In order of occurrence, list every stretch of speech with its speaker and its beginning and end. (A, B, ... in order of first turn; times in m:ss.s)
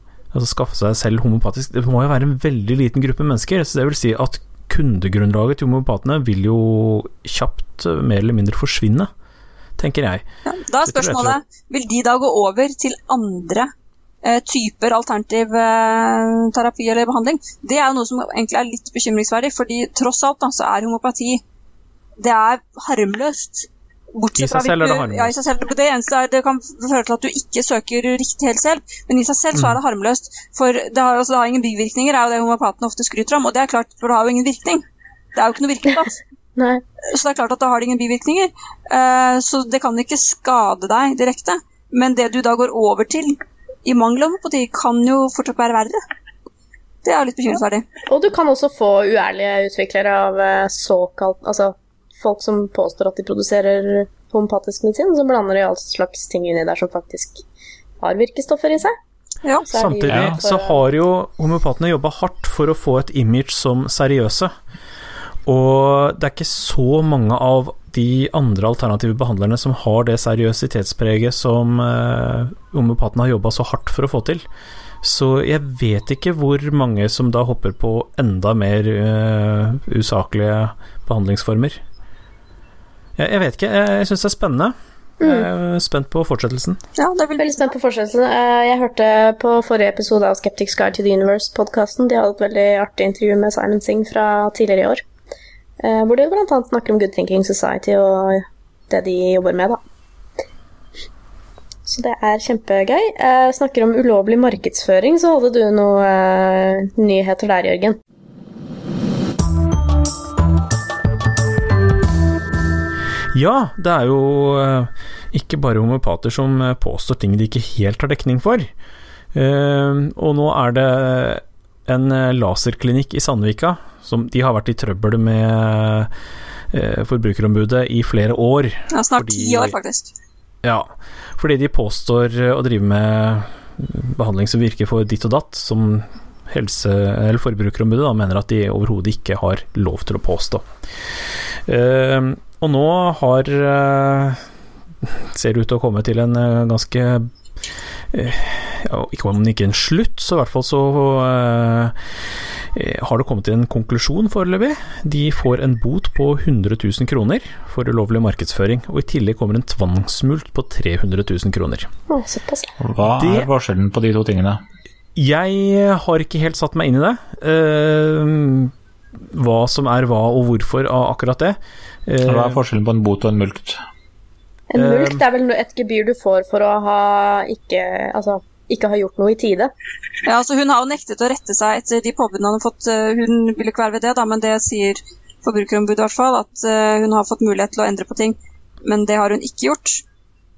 0:00.3-0:09.1 A
0:09.8-0:10.2 A
0:10.4-0:13.7 B
0:10.8-0:11.4 A
0:14.2-0:21.4 B
0:22.2-0:34.8 B
0:24.4-0:25.4 A
0:35.3-0:36.2 B
0:36.6-0:36.8 C
0:37.1-0:46.0 B
0:47.0-0:47.8 B
0:48.1-0:57.4 C
0:58.0-0:58.9 C
0:59.7-1:00.8 C
0:59.7-1:04.5 A
1:00.1-1:00.4 D
1:05.4-1:14.4 A
1:15.0-1:21.8 A
1:23.2-1:26.8 A
1:25.2-1:25.5 C
1:27.0-1:27.7 B
1:27.4-1:35.0 C
1:35.8-1:39.8 C
1:41.8-1:48.0 C
1:53.3-1:58.7 A
1:59.3-2:06.1 A
2:06.7-2:09.8 A
2:08.9-2:10.1 B
2:10.6-2:20.6 A
2:21.6-2:24.4 A
2:25.0-2:27.3 A
2:28.1-2:32.0 A
2:32.7-2:41.9 A
2:42.1-2:42.7 C
2:42.8-2:44.6 D
2:43.2-2:43.5 A
2:45.1-2:48.7 A
2:49.3-2:52.6 A
2:52.2-2:53.8 D
2:54.7-2:59.7 C
2:54.8-2:55.2 A
3:00.2-3:10.0 B